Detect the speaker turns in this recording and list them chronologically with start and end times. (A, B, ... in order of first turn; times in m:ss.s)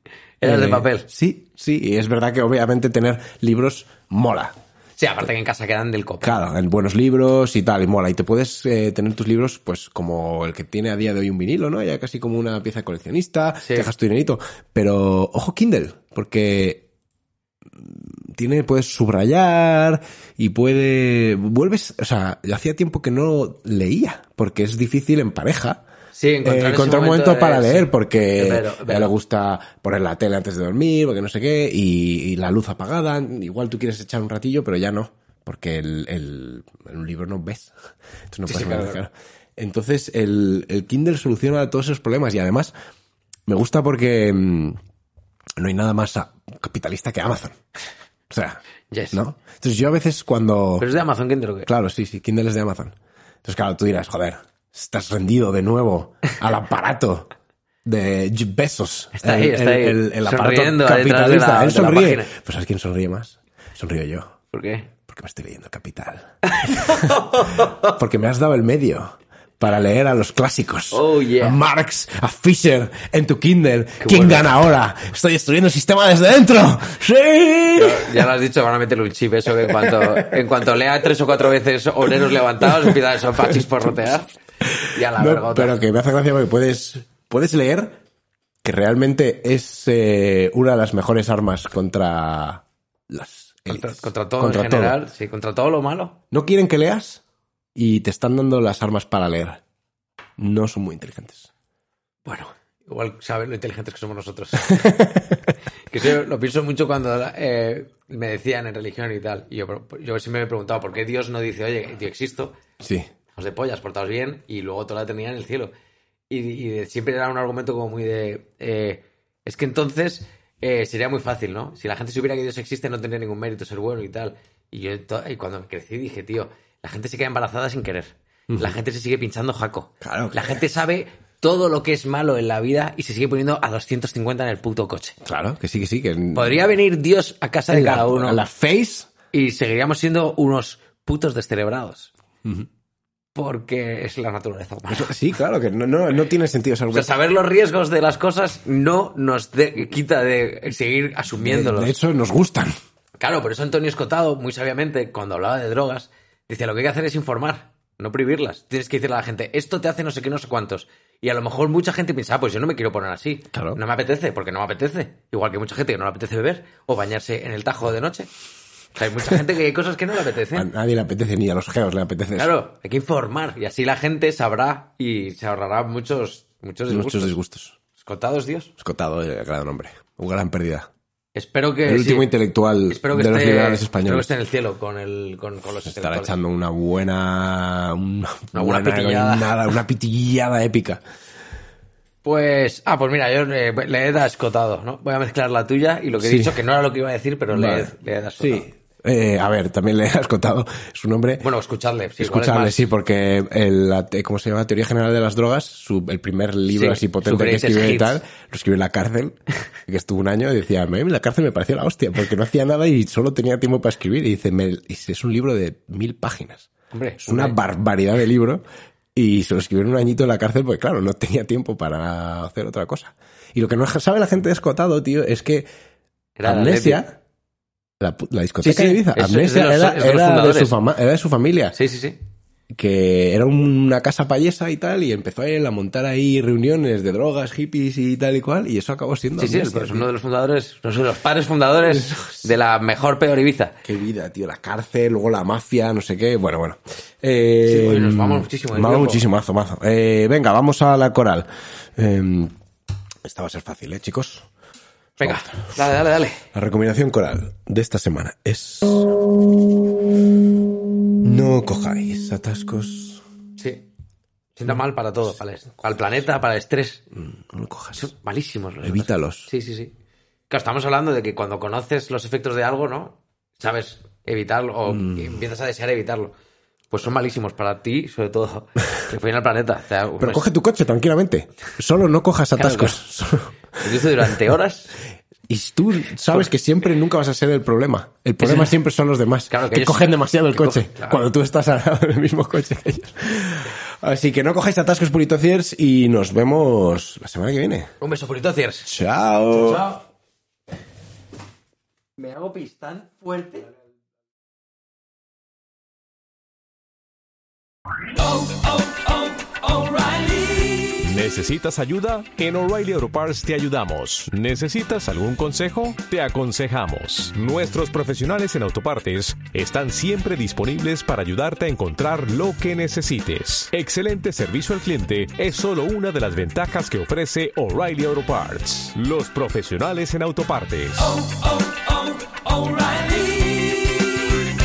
0:00.4-0:01.1 A
0:00.4-0:04.5 B
0:05.0-0:06.4 A
0:06.2-0:16.8 B
0:13.6-0:13.9 A
0:17.8-0:25.8 B
0:26.1-0:29.1 A
0:26.4-0:37.7 B
0:38.3-0:42.7 B
0:38.5-0:39.0 A
0:43.5-0:44.8 B
0:45.6-0:47.6 B
0:48.3-0:48.6 B
0:48.9-0:49.2 A
0:49.1-0:50.9 B
0:50.8-0:51.7 A
0:51.6-0:57.3 B
0:57.8-1:04.4 B
0:59.1-1:02.3 A
1:04.5-1:04.9 A
1:05.0-1:07.3 B
1:06.4-1:07.9 A
1:07.8-1:18.2 B
1:10.9-1:11.6 A
1:14.0-1:14.5 A
1:17.8-1:24.3 A
1:19.7-1:20.3 B
1:22.8-1:23.9 B
1:24.7-1:28.0 B
1:24.9-1:25.8 A
1:28.6-1:35.0 B
1:33.7-1:36.2 A
1:36.3-1:37.2 B
1:37.8-1:39.6 B
1:40.4-1:41.5 B
1:42.2-1:44.9 A
1:44.7-1:45.4 B
1:45.9-1:52.5 A
1:52.8-1:53.1 B
1:53.3-1:55.7 A
1:56.3-2:15.2 A
2:08.5-2:08.8 B
2:10.0-2:10.5 B
2:15.2-2:16.6 B
2:16.3-2:18.4 A
2:17.7-2:19.1 B
2:19.3-2:22.1 A
2:23.3-2:25.1 A
2:24.9-2:27.1 B
2:26.9-2:31.9 A
2:31.4-2:32.7 B
2:33.2-2:48.3 A
2:43.5-2:43.8 B
2:48.9-2:50.7 A
2:50.5-2:52.5 B
2:52.4-2:57.4 A
2:56.9-2:57.8 B
2:58.0-2:58.7 A
2:58.8-3:00.9 B
3:01.3-3:02.3 A
3:01.8-3:04.3 B
3:02.9-3:06.4 A
3:05.8-3:11.0 B
3:08.5-3:09.6 A
3:12.2-3:18.7 A
3:16.2-3:16.6 B
3:17.5-3:21.4 B
3:21.4-3:22.9 A
3:22.2-3:36.7 B
3:26.7-3:28.2 A
3:36.9-3:37.6 A
3:37.2-3:38.6 B
3:39.1-3:45.7 B
3:46.4-3:47.0 A
3:46.4-3:47.2 B
3:48.0-3:51.8 B
3:48.6-3:50.8 A
3:51.7-3:52.2 A
3:52.7-4:00.1 B
3:59.4-4:03.8 A
4:02.0-4:02.4 B
4:03.8-4:12.5 B
4:07.6-4:09.2 A
4:13.2-4:14.5 B
4:15.2-4:15.7 B
4:15.2-4:16.4 A
4:16.5-4:19.3 B
4:21.2-4:23.2 B
4:23.6-4:23.8 A
4:24.6-4:27.0 A
4:27.2-4:28.1 B
4:28.0-4:29.9 A
4:28.8-4:29.5 B
4:30.5-4:36.3 A
4:34.9-4:35.3 B
4:36.9-4:40.5 A
4:40.2-4:43.8 B
4:42.5-4:43.0 A
4:43.8-4:44.9 A
4:45.5-4:57.9 B
4:48.4-4:48.8 A
4:49.5-4:51.2 A
4:58.0-4:58.9 A
4:58.8-4:59.8 B
4:59.5-5:00.0 A
5:02.2-5:03.7 A
5:08.2-5:11.0 A
5:08.4-5:08.9 C
5:10.9-5:34.5 C